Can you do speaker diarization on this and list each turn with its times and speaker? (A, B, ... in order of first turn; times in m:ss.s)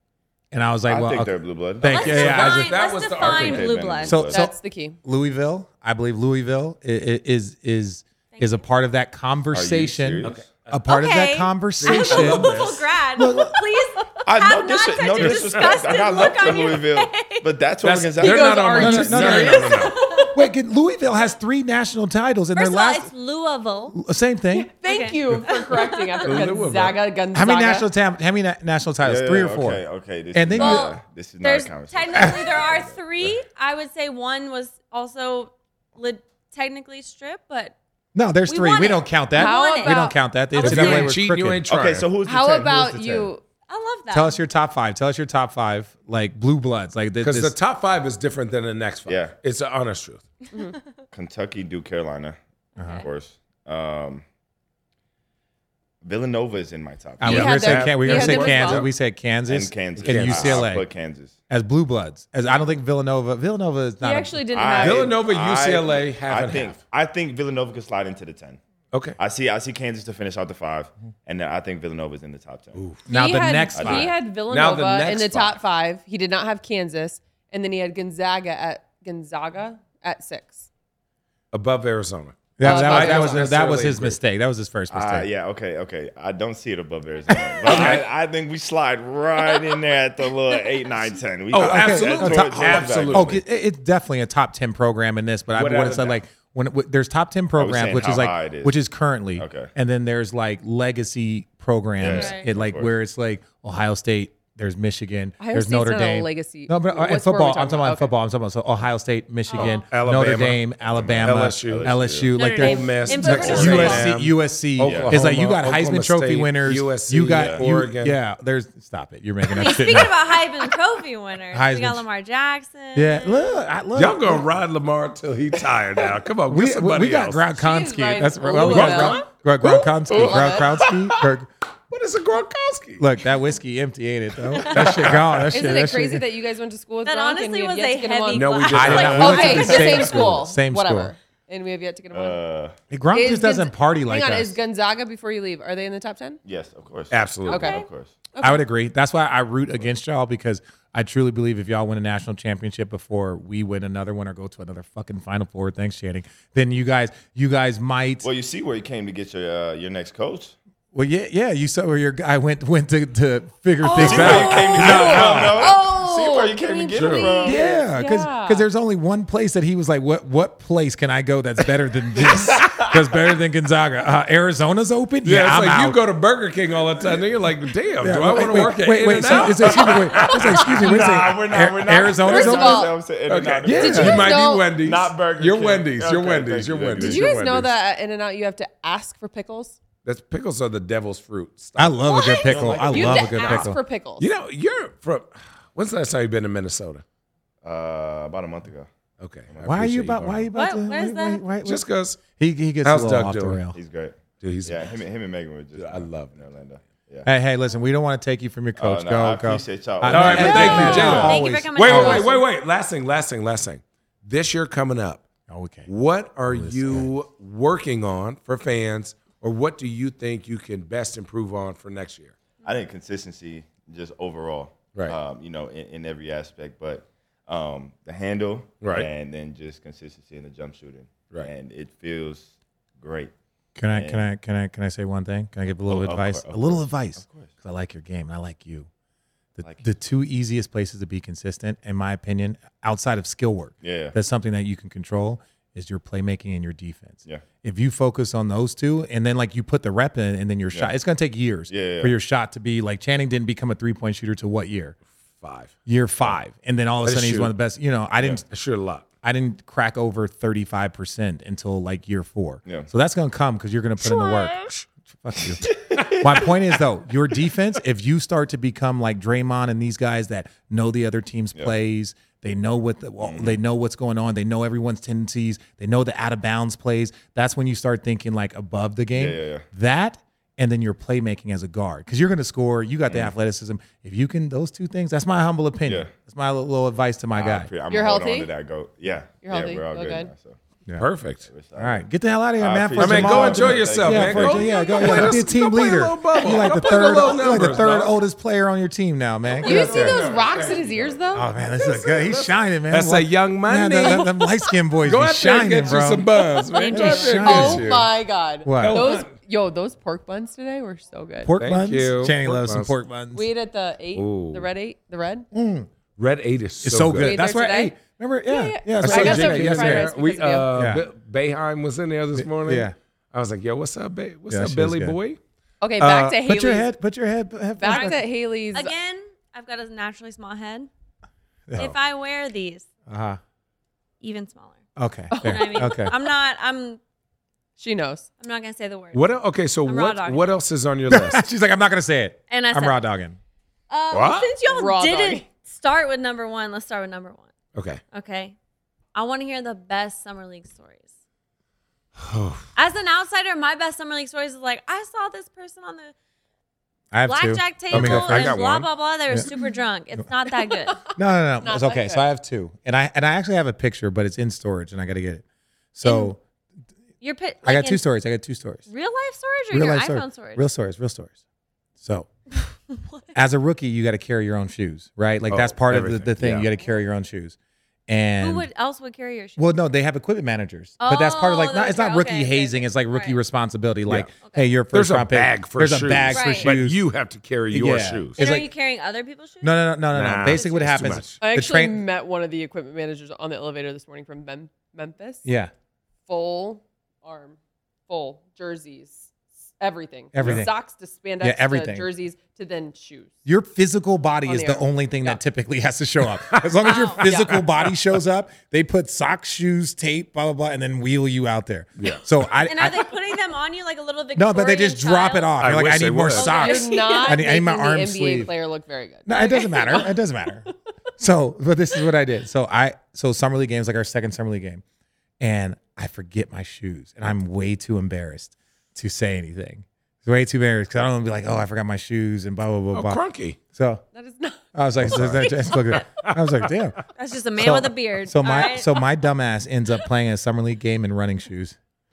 0:00.5-0:02.6 A
0:00.8-0:02.5 B
0:01.8-0:03.9 C
0:01.8-0:04.2 D
0:03.1-0:04.4 B
0:04.0-0:12.6 A
0:04.3-0:05.0 E
0:08.3-0:08.6 D
0:09.5-0:10.4 B
0:10.2-0:10.8 C
0:10.9-0:17.5 D
0:11.8-0:12.9 C
0:13.2-0:13.6 A
0:14.2-0:19.1 B
0:15.2-0:15.9 C
0:17.8-0:20.0 C
0:18.2-0:20.2 E
0:18.8-0:19.7 A
0:19.7-0:20.5 D
0:20.3-0:23.1 A
0:22.5-0:24.0 D
0:23.9-0:24.7 A
0:24.5-0:27.9 E
0:24.8-0:26.4 D
0:26.2-0:27.0 C
0:27.3-0:30.9 A
0:29.0-0:33.4 B
0:30.6-0:37.7 D
0:38.1-0:41.7 A
0:38.4-0:40.7 D
0:39.3-0:41.1 E
0:40.6-0:42.1 C
0:41.6-0:43.3 B
0:42.2-0:43.4 E
0:43.7-0:44.4 D
0:44.1-0:47.6 A
0:47.2-0:50.2 C
0:49.0-0:49.4 B
0:51.1-0:52.4 B
0:52.8-0:53.0 D
0:52.9-0:54.2 B
0:56.0-0:57.4 B
0:57.2-1:00.8 A
0:57.2-0:58.9 E
0:57.2-0:58.9 C
0:59.4-1:01.4 B
1:00.0-1:00.7 C
1:01.5-1:04.4 A
1:04.0-1:05.1 E
1:04.4-1:08.6 B
1:04.8-1:06.8 C
1:08.9-1:09.2 C
1:09.2-1:12.9 B
1:12.7-1:13.0 C
1:13.1-1:14.1 A
1:13.1-1:20.7 E
1:13.7-1:14.1 B
1:13.9-1:15.6 C
1:21.5-1:24.2 C
1:22.6-1:25.3 A
1:22.6-1:23.5 E
1:24.9-1:33.4 B
1:27.6-1:28.0 C
1:31.5-1:33.4 C
1:31.6-2:00.4 A
1:35.5-1:36.2 C
1:37.5-1:38.8 B
1:39.3-1:39.7 B
1:42.0-1:42.9 B
1:42.1-1:42.5 D
1:45.4-1:48.1 E
1:49.5-1:49.8 D
1:49.5-1:50.7 C
1:50.8-1:52.4 B
1:51.2-1:52.0 C
1:52.3-1:54.1 D
1:52.5-1:58.2 C
1:53.5-1:53.9 B
1:54.8-1:55.2 B
1:57.3-1:57.6 B
1:59.5-2:03.5 D
2:01.5-2:02.0 A
2:02.9-2:04.4 A
2:03.9-2:07.5 C
2:06.5-2:11.5 A
2:07.5-2:10.7 E
2:08.6-2:09.1 C
2:09.6-2:11.3 C
2:11.9-2:13.1 C
2:13.0-2:16.2 A
2:14.5-2:15.5 C
2:15.5-2:18.6 E
2:17.0-2:20.2 D
2:18.3-2:20.1 C
2:18.7-2:21.1 A
2:18.9-2:19.4 B
2:19.2-2:22.4 E
2:22.1-2:22.8 B
2:22.9-2:24.6 A
2:23.1-2:26.4 E
2:26.4-2:28.1 B
2:27.1-2:27.7 C
2:27.5-2:27.8 E
2:27.5-2:27.8 D
2:28.3-2:28.6 E
2:28.4-2:38.2 A
2:38.2-2:40.6 B
2:40.9-2:45.7 A
2:43.8-2:48.6 E
2:43.8-2:44.6 D
2:43.9-2:47.8 B
2:44.2-2:45.6 C
2:46.9-2:47.4 C
2:47.4-2:56.0 A
2:52.2-2:53.0 B
2:55.2-3:01.1 C
2:58.0-3:02.9 A
2:59.2-3:07.5 B
3:02.1-3:02.9 E
3:03.2-3:07.7 C
3:03.6-3:04.2 A
3:03.7-3:04.7 E
3:07.0-3:09.8 E
3:10.0-3:12.0 C
3:11.8-3:13.8 A
3:12.1-3:13.6 D
3:12.4-3:13.2 B
3:12.6-3:14.3 E
3:14.2-3:17.0 C
3:17.6-3:18.9 B
3:19.2-3:20.5 C
3:19.5-3:19.7 B
3:19.6-3:23.8 A
3:20.5-3:21.4 D
3:21.6-3:22.2 C
3:22.8-3:23.6 C
3:23.7-3:27.3 B
3:24.4-3:25.0 C
3:25.8-3:26.4 C
3:27.2-3:32.4 A
3:28.8-3:31.4 B
3:30.0-3:35.3 C
3:30.7-3:32.4 D
3:35.5-3:35.9 A
3:35.9-3:42.3 C
3:36.5-3:37.1 A
3:42.6-3:53.3 B
3:48.8-3:49.1 C
3:53.8-3:58.9 A
3:53.9-3:54.2 B
3:55.9-3:57.5 B
3:59.6-4:15.0 A
4:03.8-4:04.2 B
4:11.7-4:12.2 B
4:15.4-4:15.7 C
4:15.9-4:18.4 A
4:17.0-4:17.5 C
4:18.4-4:19.0 C
4:19.2-4:25.6 A
4:22.6-4:22.9 B
4:24.0-4:24.9 C
4:25.4-4:25.8 C
4:25.9-4:26.4 B
4:26.2-4:47.7 A
4:33.2-4:33.6 B
4:39.1-4:39.7 B
4:43.1-4:43.3 B
4:45.8-4:46.1 B
4:47.3-4:50.6 B
4:47.9-4:48.5 E
4:49.4-4:50.3 E
4:51.0-4:51.5 C
4:51.4-4:55.3 B
4:51.8-5:00.2 A
4:53.0-4:58.2 C
4:54.6-4:54.9 D
4:59.5-5:04.4 C
4:59.6-5:01.5 E
5:01.3-5:06.3 A
5:05.0-5:08.1 C
5:06.7-5:07.5 D
5:06.9-5:07.9 A
5:07.1-5:11.5 E
5:08.6-5:09.2 A
5:08.8-5:09.3 C
5:11.4-5:13.4 A
5:11.6-5:12.9 C
5:13.3-5:15.5 E
5:14.1-5:14.7 C
5:15.5-5:15.9 A
5:16.2-5:17.4 C
5:16.8-5:20.1 A
5:17.1-5:20.7 E
5:19.0-5:25.4 C
5:20.7-5:21.0 A
5:22.4-5:22.9 A
5:24.5-5:25.2 A
5:25.8-5:26.9 E
5:26.0-5:28.2 A
5:27.8-5:28.9 E
5:27.8-5:30.9 D
5:31.7-5:31.9 A
5:31.8-5:32.9 D
5:33.1-5:33.4 A
5:34.2-5:34.8 D
5:35.0-5:36.2 A
5:35.3-5:35.9 E
5:35.4-5:37.0 D
5:37.8-5:38.3 E
5:38.4-5:40.5 D
5:39.1-5:41.5 C
5:41.1-5:43.4 A
5:42.5-5:43.1 D
5:43.9-5:47.5 D
5:44.1-5:44.5 C
5:44.7-5:45.4 E
5:47.7-5:48.0 C
5:48.1-5:48.5 D
5:49.1-5:51.1 D
5:52.2-5:52.7 C
5:52.8-5:56.1 D
5:57.1-5:58.6 A
5:57.2-6:01.1 D
5:57.9-5:58.7 C
6:01.1-6:06.4 A
6:01.6-6:02.2 E
6:06.0-6:06.3 D
6:07.2-6:08.0 D
6:07.6-6:08.9 A
6:08.9-6:10.6 D
6:09.7-6:11.4 A
6:12.0-6:12.3 A
6:12.9-6:13.3 D
6:13.3-6:17.6 A
6:15.5-6:16.7 C
6:18.1-6:18.7 A
6:18.4-6:19.7 D
6:19.6-6:27.0 A
6:21.0-6:23.4 D
6:24.3-6:24.7 D
6:24.9-6:28.4 C
6:26.3-6:26.7 D
6:27.7-6:28.7 A
6:28.4-6:31.0 D
6:29.6-6:32.0 A
6:30.1-6:31.4 C
6:31.4-6:35.5 E
6:35.4-6:35.7 A
6:36.3-6:43.3 E
6:40.3-6:40.7 A
6:41.4-6:42.1 A
6:43.4-6:53.1 A
6:44.4-6:45.4 E
6:46.3-6:47.9 C
6:46.8-6:47.3 D
6:47.2-6:47.5 E
6:52.0-6:52.3 C
6:52.5-6:55.6 D
6:54.3-6:58.5 A
6:55.6-6:56.5 C
6:56.3-6:57.4 D
6:56.4-7:00.2 E
6:59.2-7:00.6 A
7:01.2-7:04.8 A
7:05.4-7:13.2 A
7:12.9-7:13.6 C
7:13.7-7:14.0 A
7:14.1-7:14.7 E
7:14.7-7:17.0 A
7:15.0-7:16.7 C
7:17.1-7:19.1 D
7:17.6-7:21.8 A